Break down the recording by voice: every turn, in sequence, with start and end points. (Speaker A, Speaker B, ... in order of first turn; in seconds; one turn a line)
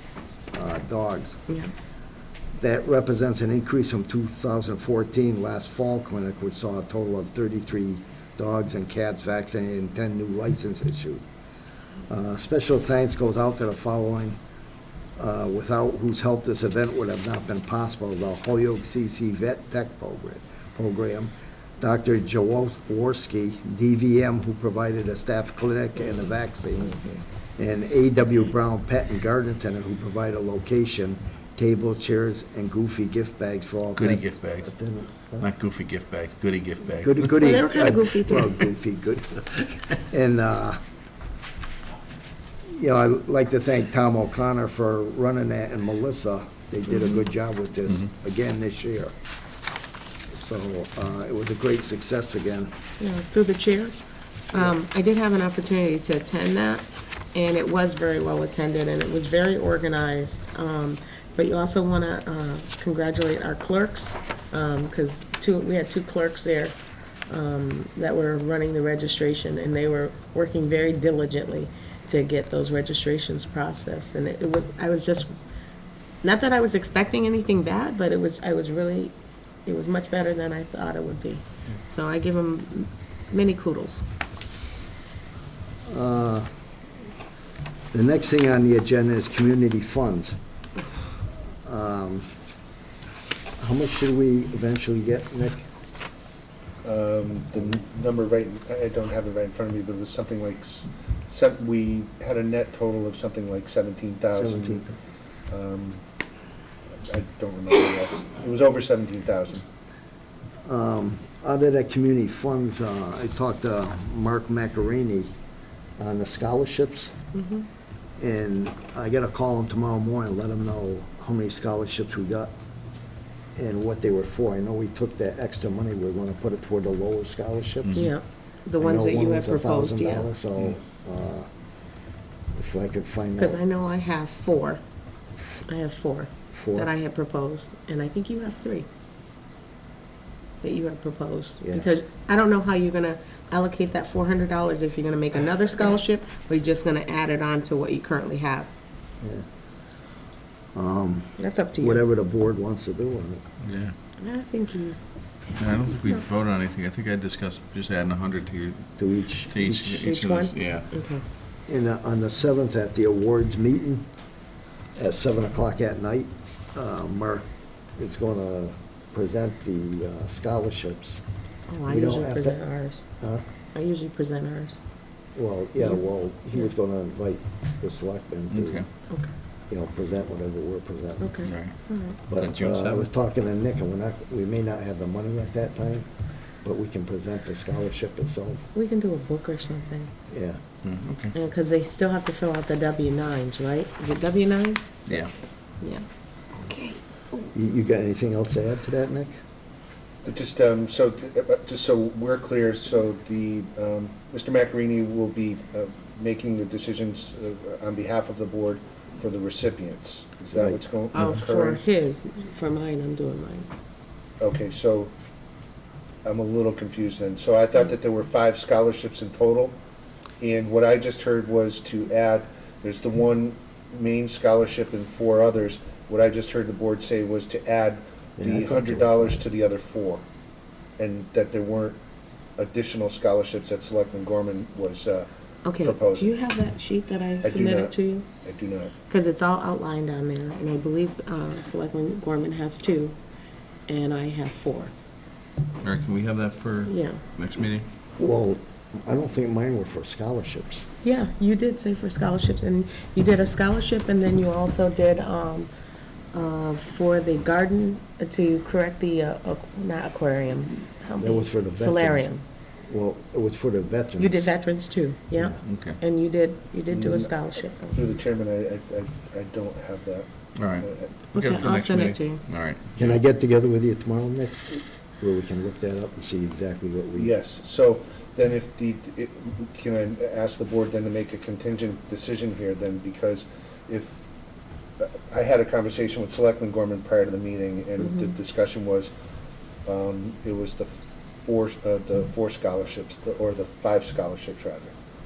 Speaker A: 0.5-1.4
Speaker A: 2.6-11.3
Speaker A: 12.1-14.4
Speaker A: 15.2-27.0
Speaker A: 27.6-35.5
Speaker B: 34.0-34.8
Speaker B: 35.4-37.6
Speaker A: 37.0-39.5
Speaker C: 37.3-39.0
Speaker A: 40.0-40.8
Speaker A: 42.7-49.1
Speaker A: 50.3-52.8
Speaker C: 53.0-54.0
Speaker C: 54.5-66.8
Speaker C: 67.3-75.3
Speaker C: 76.2-79.1
Speaker C: 79.7-84.1
Speaker A: 85.9-86.5
Speaker A: 87.9-90.4
Speaker A: 91.6-92.3
Speaker A: 93.6-95.7
Speaker D: 96.8-104.8
Speaker A: 104.3-105.0
Speaker D: 105.5-106.0
Speaker D: 107.1-109.7
Speaker A: 110.7-115.3
Speaker A: 116.0-117.2
Speaker C: 117.3-117.7
Speaker A: 118.2-122.5
Speaker A: 123.6-128.1
Speaker B: 127.8-128.1
Speaker C: 128.0-130.3
Speaker A: 128.8-131.5
Speaker A: 132.5-133.6
Speaker C: 133.4-134.8
Speaker C: 135.7-138.9
Speaker A: 136.5-136.9
Speaker C: 140.6-148.7
Speaker A: 141.6-141.9
Speaker A: 149.2-149.5
Speaker A: 150.7-153.4
Speaker C: 151.4-152.0
Speaker B: 153.6-153.9
Speaker C: 154.2-155.0
Speaker B: 155.6-160.9
Speaker A: 159.0-160.1
Speaker C: 160.0-161.2
Speaker A: 161.7-164.1
Speaker A: 165.0-171.2
Speaker C: 171.7-173.0
Speaker A: 171.9-172.6
Speaker A: 173.2-173.4
Speaker C: 173.7-174.8
Speaker A: 175.3-178.8
Speaker B: 178.5-178.9
Speaker A: 179.7-181.4
Speaker C: 181.2-182.2
Speaker B: 181.4-181.8
Speaker A: 182.3-186.1
Speaker B: 182.3-183.1
Speaker A: 186.6-188.7
Speaker C: 188.8-190.1
Speaker A: 190.3-190.6
Speaker B: 190.8-191.3
Speaker C: 191.3-194.8
Speaker B: 195.1-195.3
Speaker C: 196.6-197.4
Speaker A: 197.5-199.4
Speaker D: 200.2-211.8
Speaker A: 210.5-210.8
Speaker C: 211.1-213.7
Speaker D: 214.4-215.1
Speaker D: 216.2-219.8
Speaker D: 220.4-230.2
Speaker A: 228.4-229.4
Speaker D: 231.0-232.0
Speaker D: 232.6-235.3
Speaker C: 235.7-238.3
Speaker D: 235.8-236.3
Speaker D: 237.4-238.9
Speaker C: 239.1-243.2
Speaker C: 243.9-244.9
Speaker B: 245.8-247.9
Speaker C: 246.9-247.2
Speaker A: 248.2-250.9
Speaker C: 251.0-255.7
Speaker C: 256.3-262.4
Speaker A: 261.2-262.3
Speaker A: 262.9-264.5
Speaker C: 264.2-268.0
Speaker A: 265.4-265.6
Speaker B: 265.6-266.0
Speaker D: 266.9-267.3
Speaker D: 267.9-270.3
Speaker B: 270.6-273.2
Speaker D: 270.8-271.1
Speaker C: 271.3-272.4
Speaker A: 273.0-277.3
Speaker D: 277.1-284.2
Speaker D: 285.0-289.1
Speaker C: 288.0-288.4
Speaker D: 289.9-294.9